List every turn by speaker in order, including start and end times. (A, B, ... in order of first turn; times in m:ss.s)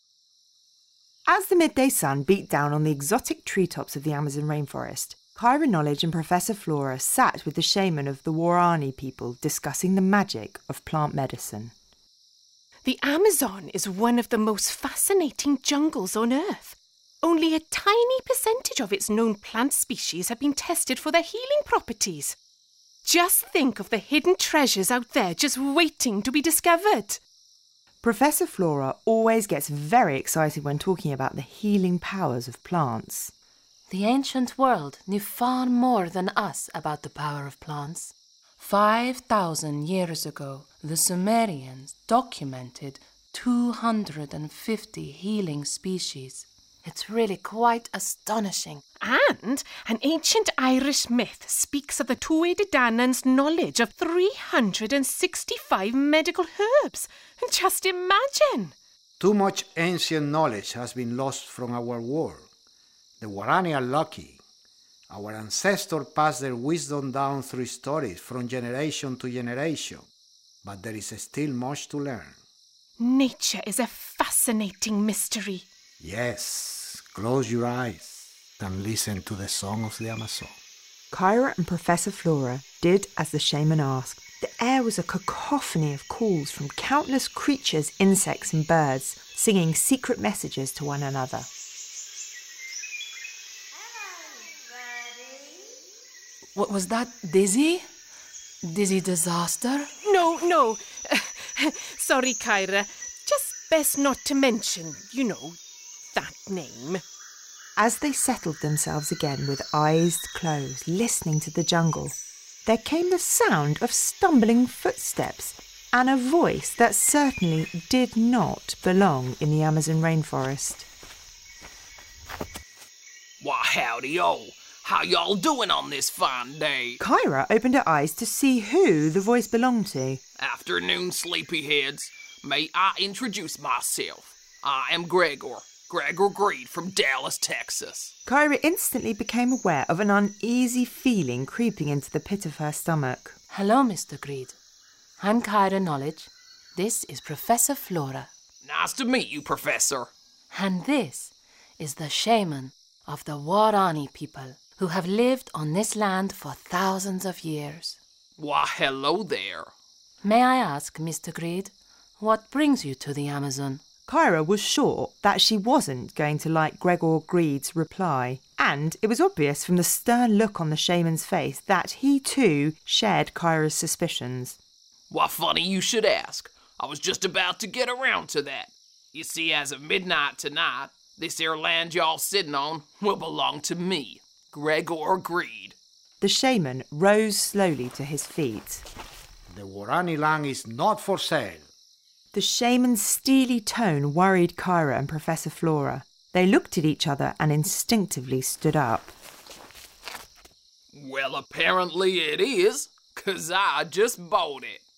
0:01.3-0:11.7 A
0:12.8-0:22.4 B
0:23.0-0:27.2 B
0:28.0-0:33.3 A
0:33.9-0:48.8 C
0:49.0-0:58.7 B
0:59.2-1:02.5 D
1:03.2-1:04.4 D
1:05.1-1:10.1 D
1:10.6-1:12.4 D
1:13.0-1:15.7 B
1:16.0-1:20.5 D
1:21.1-1:31.5 A
1:36.5-1:37.8 C
1:38.6-1:39.9 C
1:40.0-1:45.6 B
1:46.1-1:47.0 B
1:47.8-1:52.1 A
1:52.6-2:00.9 A
2:03.4-2:07.0 E
2:07.0-2:10.2 A
2:10.4-2:18.1 E
2:18.2-2:23.3 A
2:23.5-2:24.6 C
2:25.2-2:28.3 C
2:28.6-2:30.1 E
2:30.5-2:38.0 C
2:38.4-2:39.7 E
2:40.2-2:43.8 C
2:44.1-2:54.6 A
2:55.1-3:05.7 E
3:06.2-3:08.8 A
3:09.5-3:11.6 D
3:12.3-3:19.1 A
3:20.9-3:24.8 E